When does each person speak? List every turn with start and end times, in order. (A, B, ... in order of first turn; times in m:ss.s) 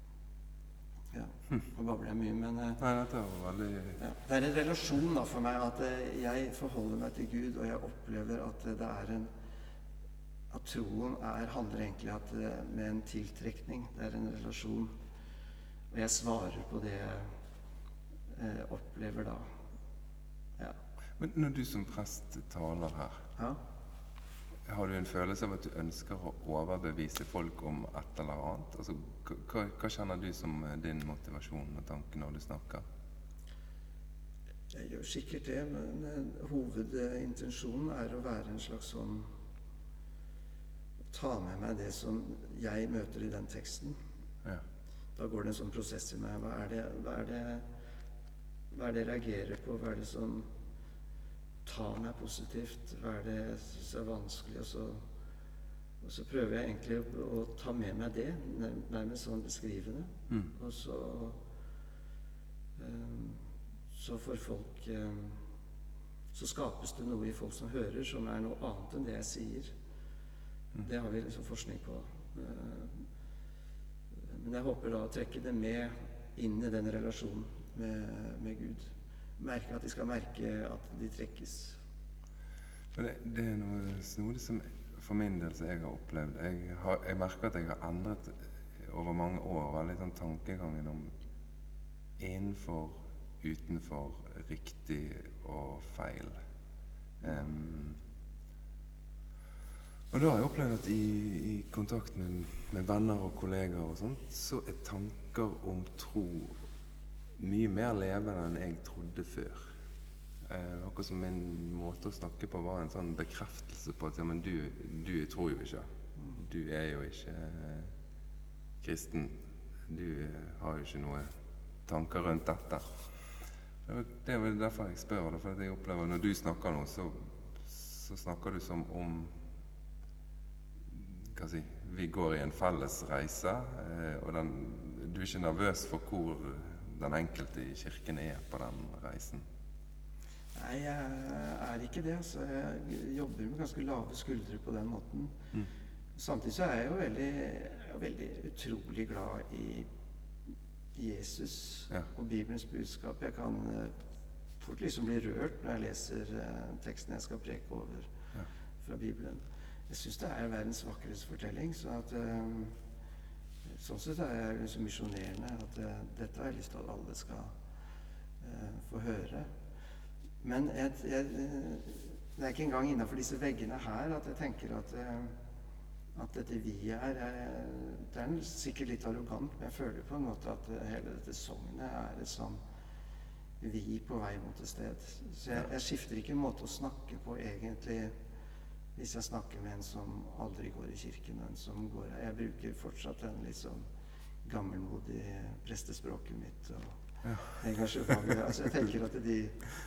0:01.1-0:02.8 A
0:02.8-0:04.0 B
0:04.0-0:09.3 A
0:10.5-0:15.0 A
0:15.9-0:17.3 A
0:18.3-0:19.6 A
0:21.2-0:23.2 B
0:24.7-0:32.9 B
0:34.7-0:39.3 A
0:41.1-0:44.0 A
0:45.2-0:47.6 A
0:48.7-0:50.5 A
0:51.6-0:55.0 A
0:56.0-1:01.4 A
1:02.8-1:05.4 A
1:06.3-1:09.7 A
1:10.8-1:13.0 A
1:14.2-1:21.8 A
1:22.9-1:31.1 B
1:32.2-1:36.4 B
1:37.2-1:38.0 B
1:40.1-1:46.6 B
1:47.4-1:49.7 B
1:50.4-1:57.9 B
1:58.8-2:01.3 B
2:01.9-2:03.0 B
2:03.8-2:09.4 B
2:10.9-2:19.4 B
2:20.6-2:25.4 A
2:26.2-2:29.9 A
2:31.0-2:33.9 A
2:34.6-2:38.1 A
2:38.8-2:42.8 A
2:43.7-2:47.6 A
2:48.4-2:49.5 A
2:50.4-2:55.4 A
2:56.2-3:02.6 A
3:03.6-3:08.1 A
3:09.0-3:13.8 A
3:14.4-3:19.7 A
3:17.2-3:17.6 B